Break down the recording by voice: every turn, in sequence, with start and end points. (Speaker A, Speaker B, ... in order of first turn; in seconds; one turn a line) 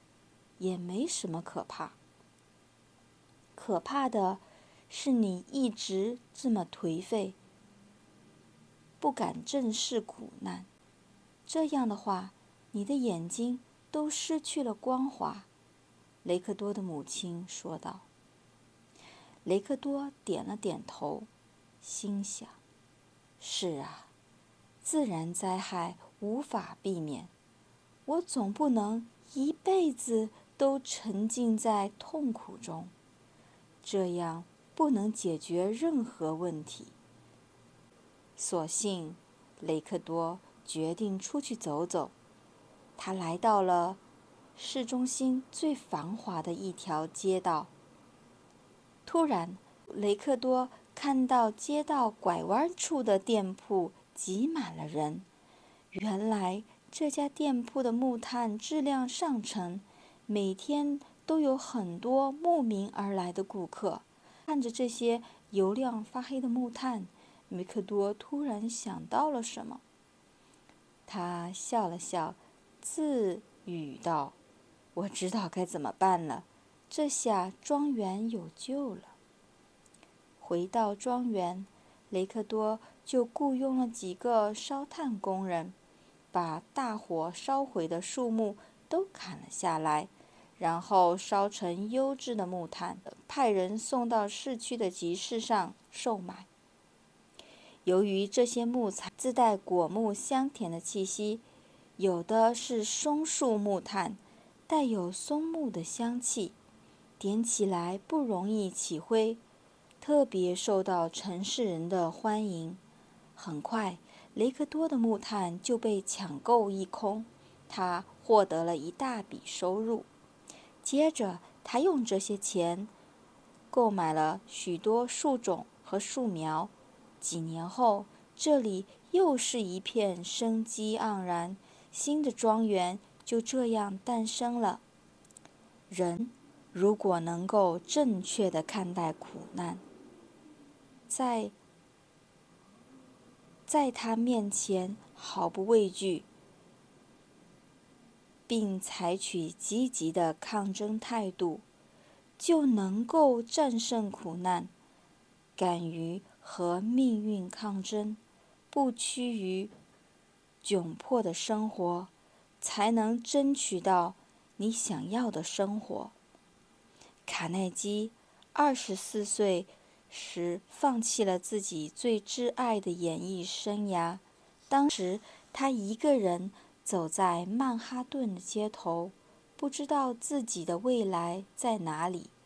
Speaker A: 0.6-2.0
Speaker A: 3.5-7.4
Speaker A: 9.0-10.7
Speaker A: 11.4-15.5
Speaker A: 16.2-18.1
Speaker A: 19.4-21.3
Speaker A: 21.8-22.6
Speaker A: 23.4-24.1
Speaker A: 24.8-27.3
Speaker A: 28.1-32.9
Speaker A: 33.8-36.9
Speaker A: 38.4-42.1
Speaker A: 43.0-44.0
Speaker A: 44.5-47.7
Speaker A: 49.0-55.2
Speaker A: 55.9-69.8
Speaker A: 71.1-74.3
Speaker A: 74.9-79.2
Speaker A: 80.4-85.7
Speaker A: 86.3-96.5
Speaker A: 97.8-101.4
Speaker A: 102.0-106.5
Speaker A: 107.2-109.4
Speaker A: 110.0-112.8
Speaker A: 113.3-120.1
Speaker A: 120.8-122.9
Speaker A: 123.7-134.8
Speaker A: 135.9-139.8
Speaker A: 141.1-141.5
Speaker A: 143.7-146.3
Speaker A: 148.5-151.6
Speaker A: 152.4-154.7
Speaker A: 155.6-158.2
Speaker A: 158.7-159.7
Speaker A: 160.6-166.1
Speaker A: 167.2-182.3